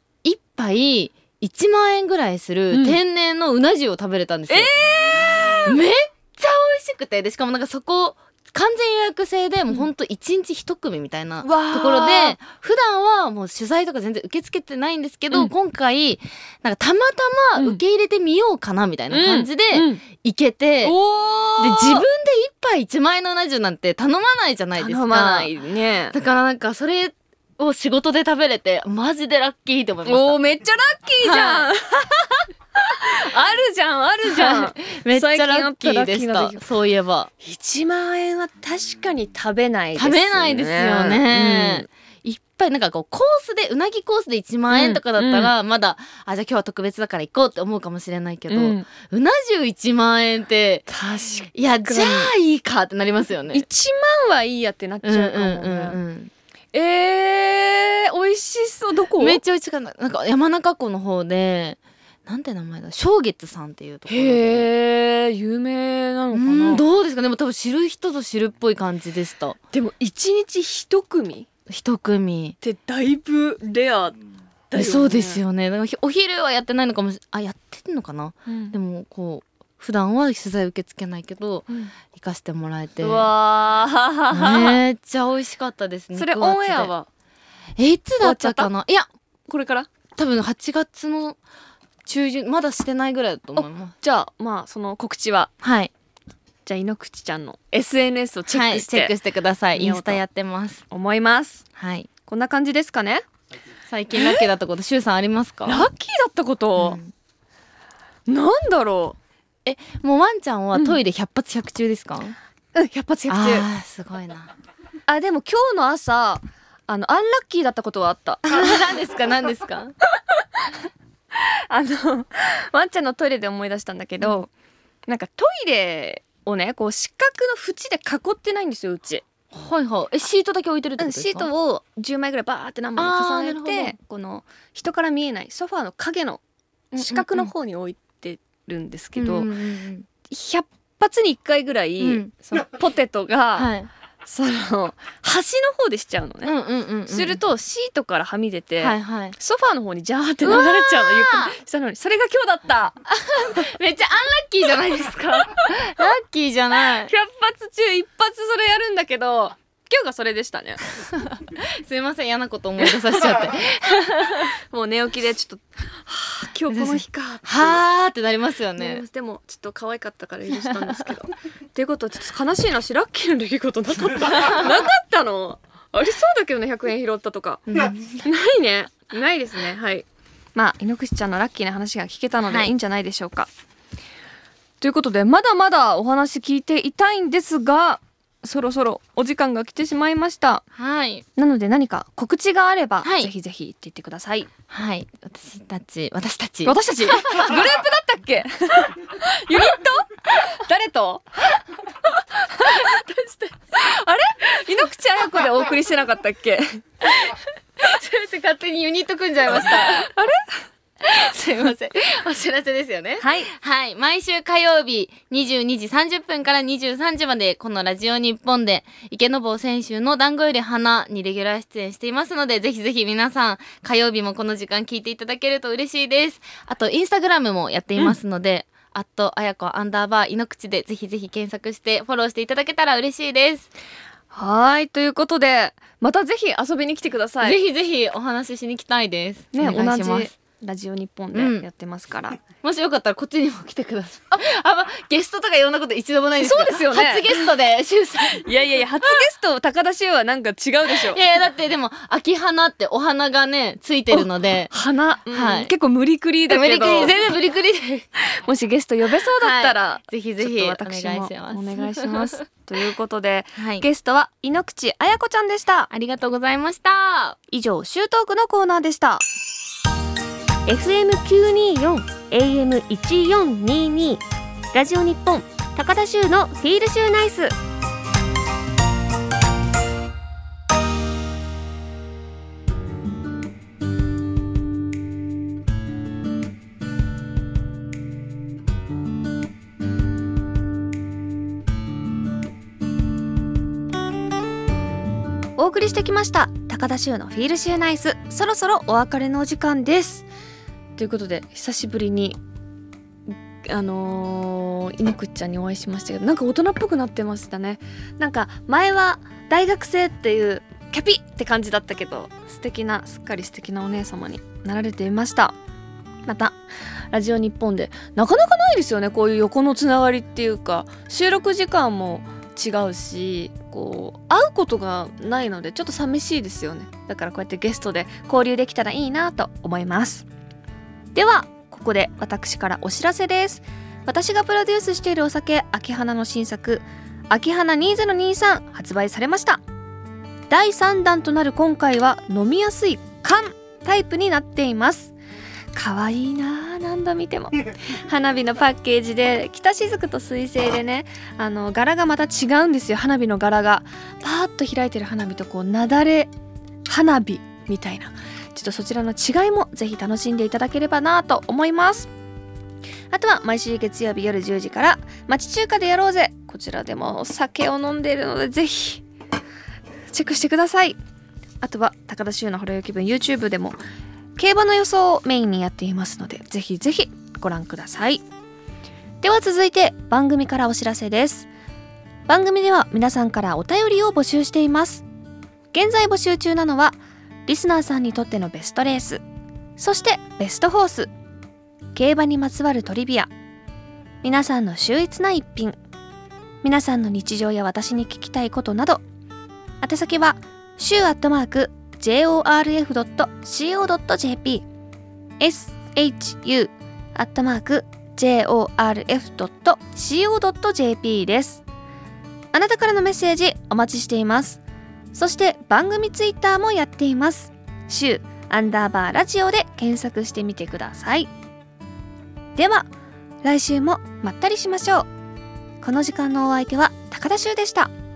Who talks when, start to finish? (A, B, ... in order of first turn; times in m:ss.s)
0:00.2-0:21.0 A
0:02.7-0:03.0 B
0:04.5-0:05.8 B
0:11.4-0:12.4 B
0:17.6-0:17.8 B
0:19.1-0:20.0 B
0:20.8-0:22.0 B
0:21.6-0:25.5 A
0:24.8-0:26.2 B
0:26.1-0:30.4 A
0:30.0-0:36.6 B
0:31.2-0:31.7 A
0:34.2-0:37.3 A
0:37.4-0:41.9 B
0:39.9-0:50.9 A
0:44.7-0:45.5 B
0:48.5-0:48.8 B
0:50.9-0:52.3 B
0:51.5-0:53.7 A
0:53.5-0:56.0 B
0:55.0-0:56.3 A
0:56.7-0:59.4 B
0:59.2-1:04.7 A
1:04.1-1:06.8 B
1:06.3-1:09.6 A
1:09.7-1:11.5 B
1:11.7-1:12.6 A
1:12.6-1:14.2 B
1:14.7-1:15.4 B
1:14.7-1:23.3 A
1:18.5-1:18.7 B
1:23.0-1:24.8 B
1:24.3-1:26.9 A
1:26.1-1:27.1 B
1:27.8-1:29.1 A
1:28.2-1:28.7 B
1:29.5-1:29.9 B
1:30.2-1:31.4 A
1:32.0-1:33.9 A
1:34.0-1:35.5 B
1:35.6-1:35.9 A
1:36.6-1:39.1 B
1:38.5-1:40.8 A
1:39.7-1:40.2 B
1:40.9-1:41.6 B
1:41.8-1:42.1 A
1:42.3-1:43.2 B
1:43.9-1:45.9 A
1:44.1-1:44.5 B
1:45.6-1:47.0 B
1:46.8-1:47.1 A
1:48.3-1:49.2 B
1:49.6-1:52.4 A
1:52.7-1:53.7 B
1:53.3-1:54.5 A
1:55.1-1:58.8 B
1:58.4-1:59.9 A
2:00.3-2:00.7 B
2:01.3-2:04.5 B
2:05.1-2:09.2 B
2:09.5-2:11.5 A
2:11.0-2:16.4 B
2:13.0-2:14.0 A
2:16.9-2:19.5 B
2:17.0-2:17.5 A
2:19.2-2:20.1 A
2:20.3-2:23.7 B
2:22.0-2:22.6 A
2:23.5-2:23.9 A
2:24.2-2:26.5 B
2:26.4-2:27.4 A
2:27.1-2:33.0 B
2:28.8-2:29.3 A
2:30.4-2:31.6 A
2:33.1-2:37.1 A
2:37.0-2:40.8 B
2:41.1-2:44.5 A
2:42.8-2:43.2 B
2:44.7-2:47.8 B
2:46.7-2:49.0 A
2:48.8-2:57.6 B
2:57.7-2:58.2 A
2:58.2-3:03.5 B
3:02.4-3:02.7 A
3:04.8-3:10.6 B
3:10.7-3:11.2 A
3:11.4-3:14.5 B
3:13.0-3:13.3 A
3:14.7-3:17.4 A
3:16.6-3:27.3 B
3:27.8-3:30.1 A
3:29.5-3:31.7 B
3:31.0-3:53.7 A
3:33.2-3:33.5 B
3:54.3-3:57.6 B
3:57.4-4:00.3 A
3:59.5-4:02.4 B
4:01.3-4:01.6 A
4:02.6-4:08.4 A
4:06.4-4:07.5 B
4:08.3-4:11.2 B
4:10.9-4:14.7 A
4:14.1-4:17.3 B
4:15.3-4:15.7 A
4:16.5-4:18.0 A
4:18.2-4:25.9 B
4:19.4-4:22.4 A
4:23.6-4:23.8 A
4:25.9-4:27.4 A
4:27.5-4:29.3 B
4:30.7-4:34.2 C
4:34.7-4:37.5 C
4:55.6-5:00.2 B
5:01.0-5:02.4 B
5:03.3-5:15.5 B
5:16.2-5:16.6 B
5:17.1-5:30.2 B
5:31.1-5:39.6 B
5:40.5-5:45.1 B
5:45.7-5:56.3 B
5:56.9-6:02.1 B
6:03.1-6:09.0 B
6:10.1-6:11.0 B
6:11.6-6:13.8 B
6:14.4-6:18.2 B
6:19.2-6:21.5 B
6:22.3-6:25.0 B
6:25.7-6:26.9 B
6:27.5-6:29.2 B
6:29.8-6:31.1 B
6:31.9-6:33.3 B
6:34.2-6:35.8 B
6:36.6-6:39.0 B
6:39.8-6:44.6 B
6:45.4-6:51.6 B
6:52.5-6:54.6 B
6:55.1-7:01.3 B
7:02.6-7:02.9 B
7:03.4-7:05.1 B
7:05.8-7:07.9 B